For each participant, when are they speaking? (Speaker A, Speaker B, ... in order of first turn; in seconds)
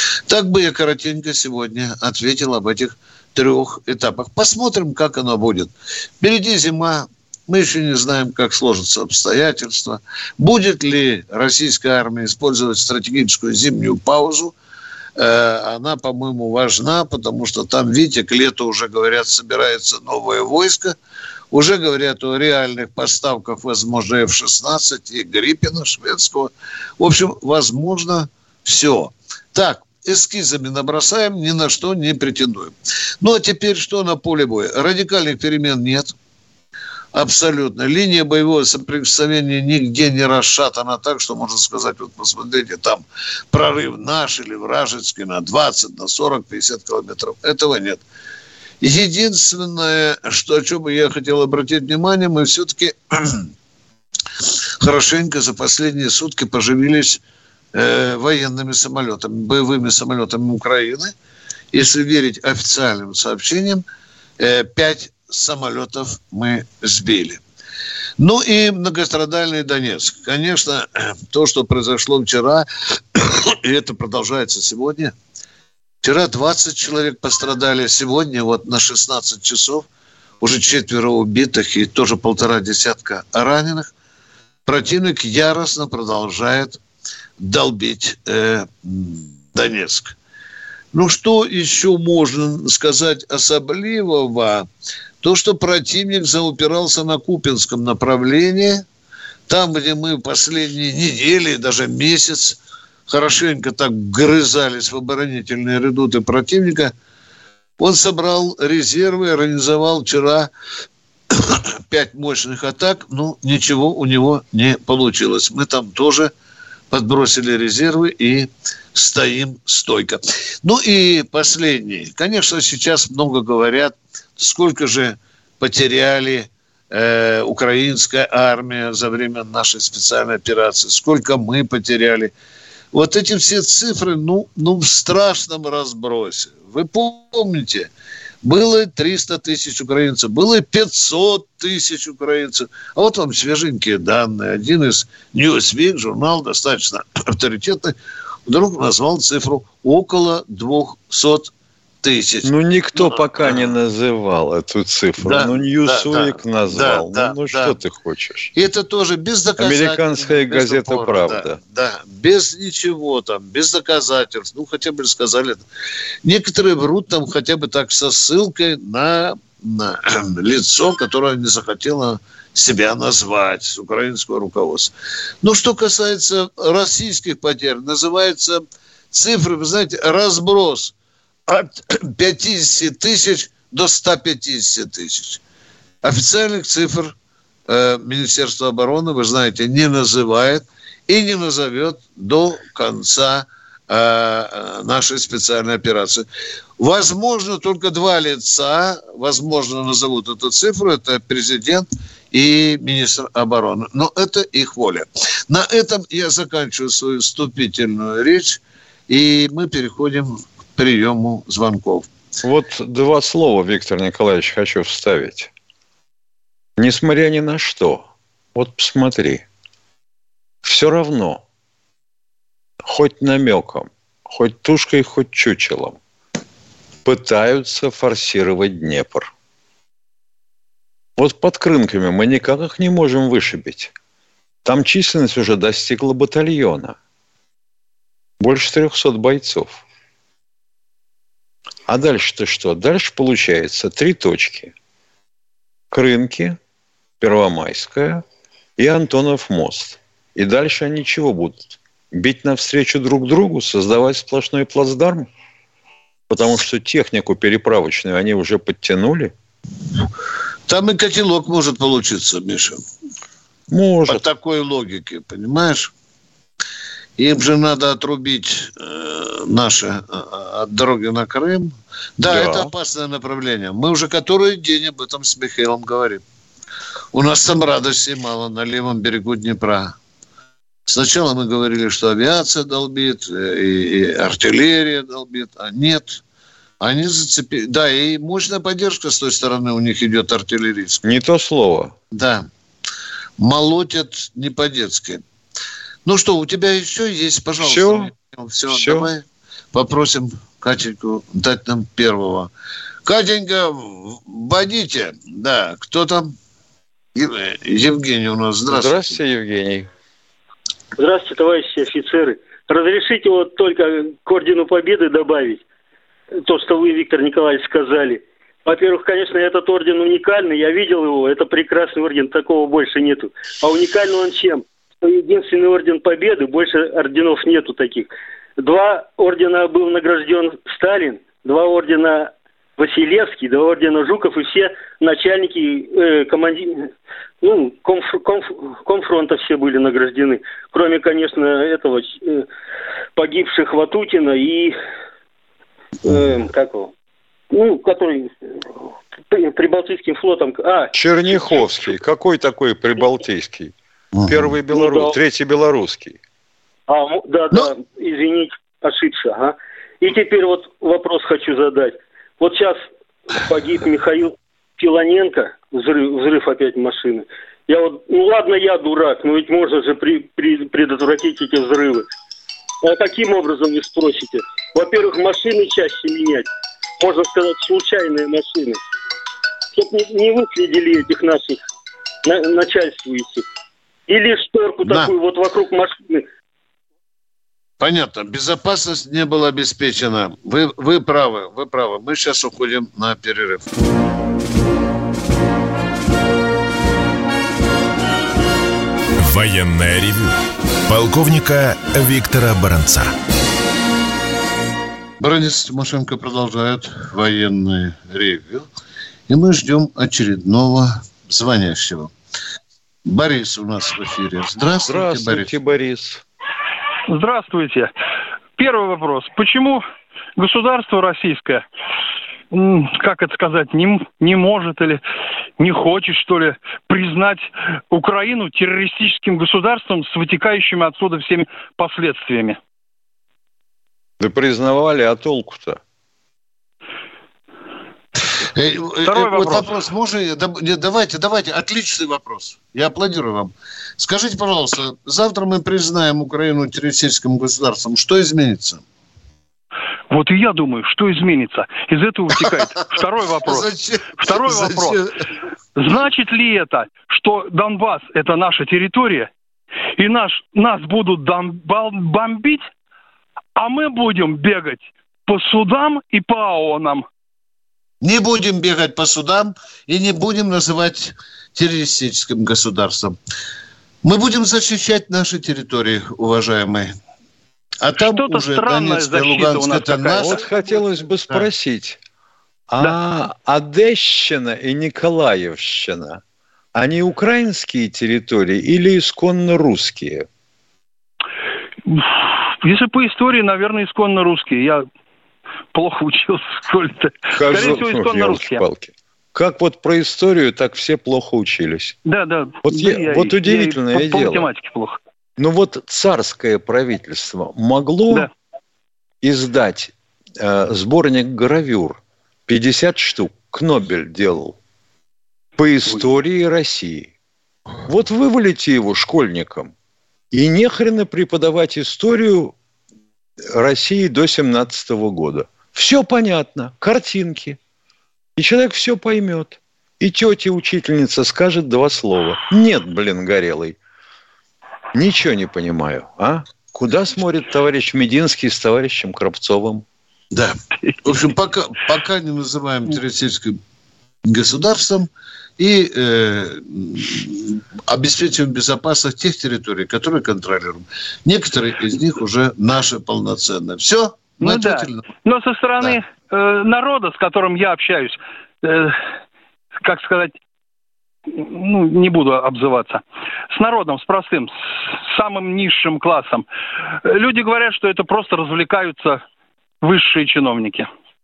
Speaker A: 0.3-14.5, 15.2-20.9, 21.5-36.1, 37.1-48.0, 48.8-53.5, 54.8-57.2, 57.7-61.1, 61.7-63.8, 64.4-67.4, 68.2-75.1, 76.0-79.8, 80.4-83.9, 84.7-86.8, 87.4-90.1, 90.9-94.7, 95.2-98.8, 99.5-106.9, 107.8-110.5, 111.3-116.3, 116.9-132.3, 132.9-137.9, 138.4-147.9, 148.5-151.5, 152.0-153.7, 155.2-157.8, 158.5-165.6, 166.2-180.9, 181.5-185.4, 186.0-187.1, 187.7-196.2, 196.8-212.1, 260.7-262.8, 264.1-265.9, 267.2-276.2, 277.1-279.9, 280.9-286.2, 286.8-291.1, 292.1-292.5, 293.4-295.2, 296.1-302.5, 303.1-306.3, 307.1-309.2, 354.1-354.5, 387.8-393.6, 405.2-408.7, 409.3-412.1, 413.1-415.5, 438.5-448.8, 453.4-455.1, 468.0-473.2, 474.0-476.9, 477.8-480.4, 540.3-543.6, 544.2-555.1
Speaker B: 152.4-158.5, 159.6-161.6, 212.4-215.5, 216.8-219.4, 220.6-221.4, 222.8-226.0, 227.0-229.3, 231.2-233.9, 234.6-236.9, 238.4-239.8, 241.9-244.7, 245.9-246.6, 247.2-248.2, 248.8-255.3, 256.3-259.3, 263.7-264.2, 272.2-272.7, 291.0-291.9, 297.6-298.1, 298.7-299.1, 308.7-309.9, 350.9-353.7, 354.3-356.2, 414.9-416.2, 434.2-435.8, 480.2-482.0, 482.7-486.2, 486.7-490.3, 497.3-501.9, 502.6-504.5, 505.4-508.3, 509.2-514.6, 515.6-517.1, 517.9-519.7, 520.3-522.5, 523.5-527.6, 528.4-533.8, 534.9-539.8
Speaker C: 311.0-315.6, 316.4-342.5, 343.2-344.7, 346.1-346.9, 347.5-351.6, 354.7-355.2, 356.9-362.8, 363.4-372.1, 372.8-376.5, 377.0-378.8, 379.7-381.6, 382.2-383.4, 384.1-386.2
Speaker D: 399.2-400.3, 400.9-403.1
Speaker E: 417.1-417.9, 418.6-419.8, 420.4-421.6, 422.5-425.0, 425.6-432.6, 439.0-439.7, 450.1-455.0, 455.8-459.3, 460.0-462.7, 463.6-467.1, 478.0-480.4, 491.9-494.8, 495.7-498.6, 502.1-505.0, 554.4-559.0, 559.8-560.4, 561.3-566.5, 567.0-569.2, 569.8-570.9